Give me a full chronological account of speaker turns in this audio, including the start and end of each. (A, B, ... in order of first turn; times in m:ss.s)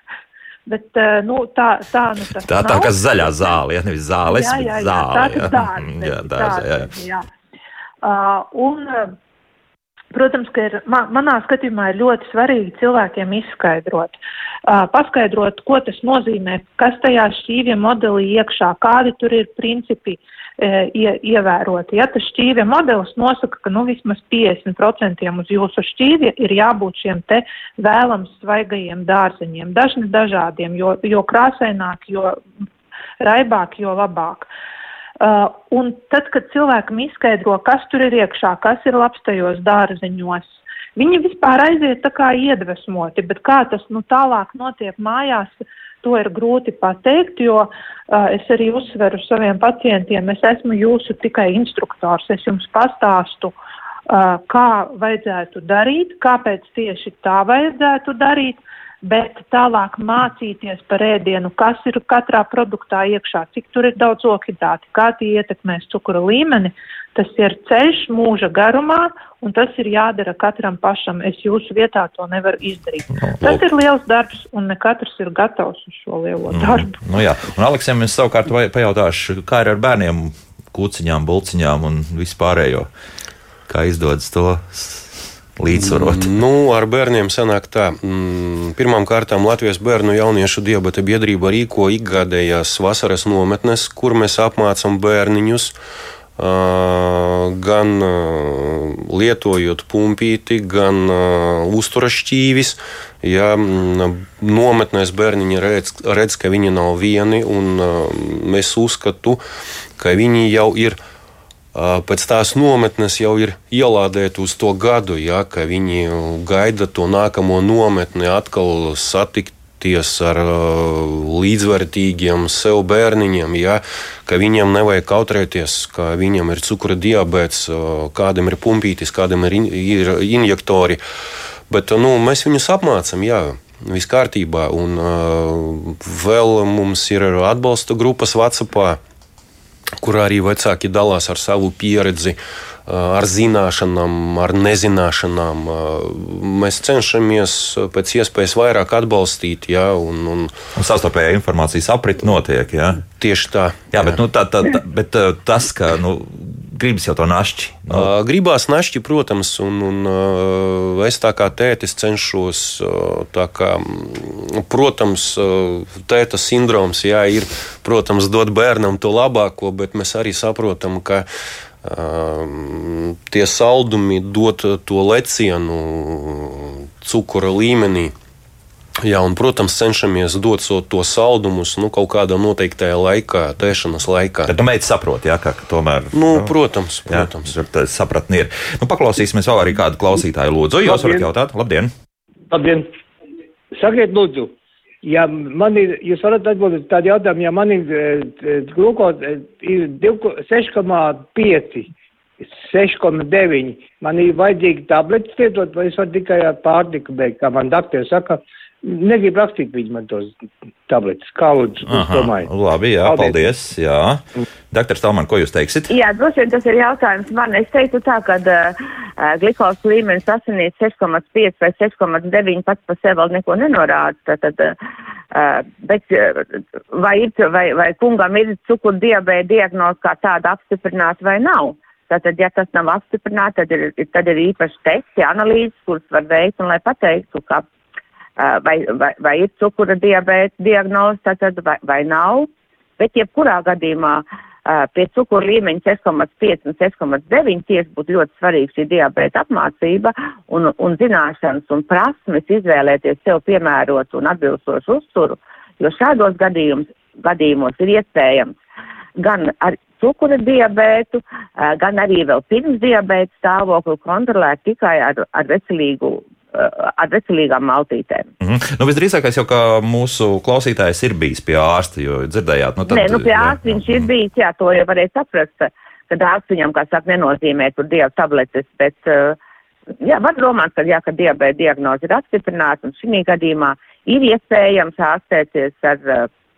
0:00.7-0:03.0 A
0:02.5-0:06.9 B
0:04.2-0:07.2 A
0:08.0-0:09.1 A
0:10.1-0:32.4 A
0:33.2-0:34.5 A
0:35.2-0:53.5 A
0:54.1-1:16.9 A
1:13.2-1:13.6 B
1:16.5-1:22.9 B
1:23.7-1:26.3 B
1:25.7-1:35.7 C
1:36.4-1:49.4 C
1:50.0-1:51.0 C
1:51.7-2:11.0 C
2:11.7-2:19.0 C
2:20.0-2:30.5 C
2:30.8-2:33.0 B
2:33.2-2:34.2 C
2:33.9-2:38.1 B
2:37.9-2:51.2 C
2:51.8-2:58.1 C
2:59.0-3:04.5 C
3:04.5-3:06.5 B
3:06.1-3:07.5 C
3:07.1-3:11.9 B
3:10.8-3:11.3 D
3:12.5-3:12.9 D
3:13.7-3:21.9 D
3:22.5-3:30.3 D
3:30.9-3:32.5 D
3:31.8-3:35.9 B
3:33.0-3:33.4 D
3:35.9-3:44.8 E
3:45.3-3:57.6 E
3:58.4-4:18.5 E
4:19.2-4:28.3 E
4:28.4-4:34.1 B
4:32.9-4:39.4 E
4:40.0-4:46.3 E